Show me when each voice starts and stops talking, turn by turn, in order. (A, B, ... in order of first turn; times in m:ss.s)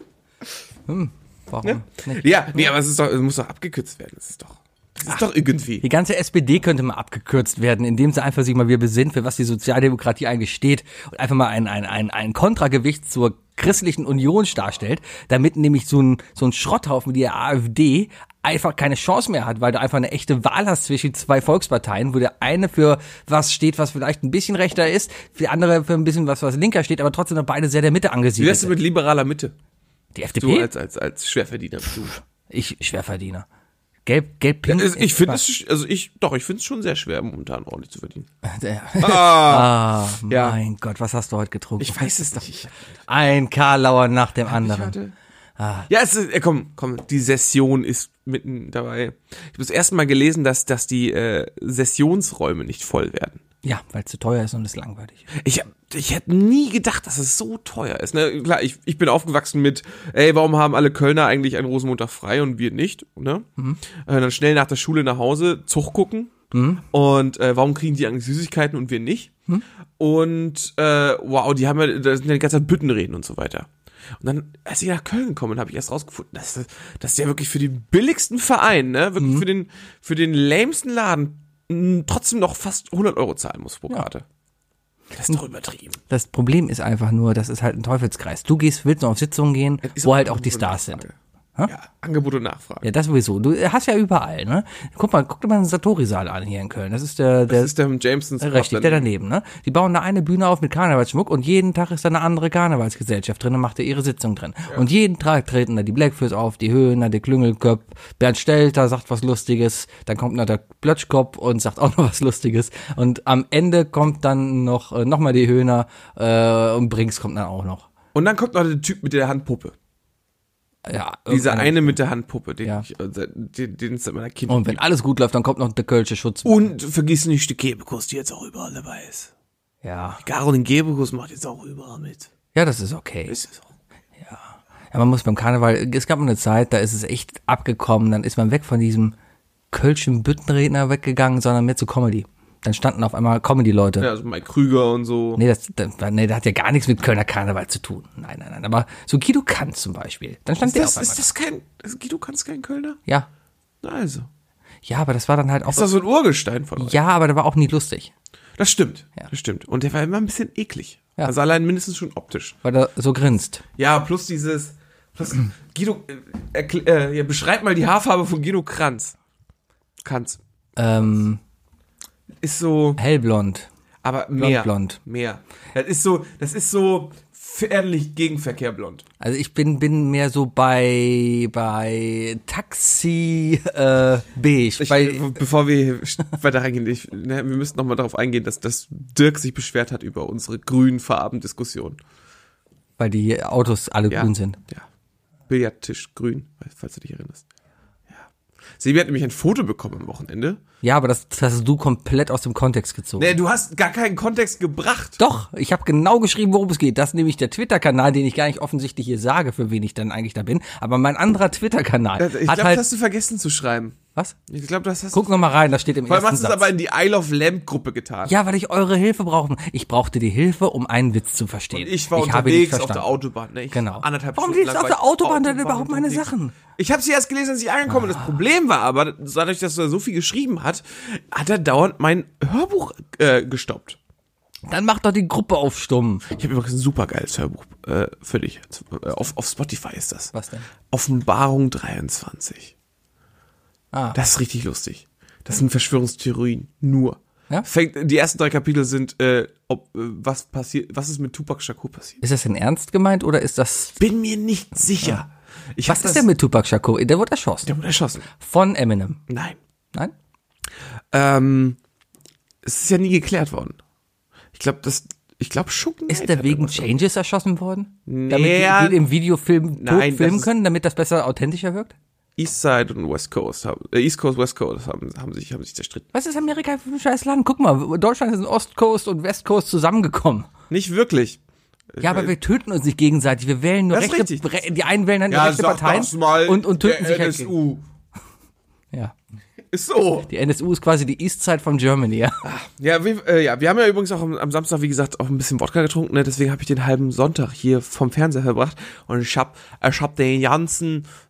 0:00.9-0:02.6 A
0:01.6-0:05.8 B
0:05.8-0:28.8 A
0:28.4-0:29.5 B
0:30.2-0:30.7 A
0:30.4-0:32.2 B
0:32.5-0:33.4 A
0:34.1-0:35.4 A
0:34.7-0:38.3 B
0:38.4-0:42.4 A
0:39.0-0:40.6 B
0:41.8-0:42.8 B
0:43.1-0:45.0 A
0:44.5-0:45.2 B
0:45.6-0:45.9 A
0:45.9-0:53.4 B
0:53.6-0:55.3 A
0:55.3-1:03.5 B
1:04.0-1:06.3 B
1:06.5-1:06.8 A
1:06.9-1:09.3 B
1:10.0-1:13.7 B
1:14.2-1:24.2 B
1:19.2-1:19.4 A
1:25.1-1:26.0 B
1:26.1-1:31.0 A
1:29.8-1:31.2 B
1:31.7-1:32.9 B
1:32.8-1:37.7 A
1:37.5-1:39.1 B
1:38.4-1:57.9 A
1:58.1-1:59.8 B
2:00.9-2:02.0 A
2:01.3-2:04.8 B
2:04.5-2:06.6 A
2:06.4-2:09.3 B
2:09.8-2:10.2 A
2:10.2-2:12.3 B
2:12.5-2:13.4 A
2:13.3-2:13.6 B
2:14.2-2:19.2 A
2:19.7-2:24.1 A
2:24.0-2:25.4 B
2:25.4-2:31.2 A
2:30.6-2:33.0 B
2:33.8-2:34.3 B
2:34.8-2:35.9 A
2:35.7-2:37.0 B
2:36.8-2:38.1 A
2:38.6-2:42.6 B
2:42.6-2:43.6 A
2:43.8-2:49.2 B
2:50.0-2:50.4 B
2:50.8-2:51.4 A
2:52.4-2:53.0 B
2:53.0-2:53.7 A
2:54.0-2:59.0 B
2:54.4-2:55.0 A
2:59.2-3:05.4 A
3:04.8-3:12.0 B
3:13.0-3:14.6 A
3:14.1-3:14.8 B
3:15.5-3:17.4 B
3:18.8-3:20.6 B
3:20.8-3:23.3 A
3:23.2-3:25.2 B
3:25.2-3:32.8 A
3:32.2-3:35.4 B
3:35.1-3:36.7 A
3:36.1-3:38.4 B
3:38.3-3:43.1 A
3:41.7-3:54.0 B
3:43.7-3:46.5 A
3:47.9-3:48.2 A
3:54.7-3:56.2 A
3:56.3-4:00.3 B
4:00.3-4:00.7 A
4:00.9-4:02.7 B
4:04.2-4:12.2 B
4:12.2-4:14.0 A
4:14.0-4:16.3 B
4:15.9-4:17.7 A
4:17.6-4:18.3 B
4:18.3-4:19.2 A
4:19.3-4:19.6 B
4:21.1-4:21.8 B
4:22.6-4:23.8 B
4:24.5-4:26.9 B
4:26.1-4:32.0 A
4:28.1-4:29.0 B
4:29.8-4:30.5 B
4:32.4-4:36.1 B
4:36.1-4:40.5 A
4:40.7-4:41.4 B
4:41.9-4:42.3 B
4:42.0-4:47.5 A
4:43.9-4:44.5 B
4:45.3-4:47.8 B
4:49.7-4:50.3 B
4:50.3-4:52.4 A
4:52.4-5:01.1 B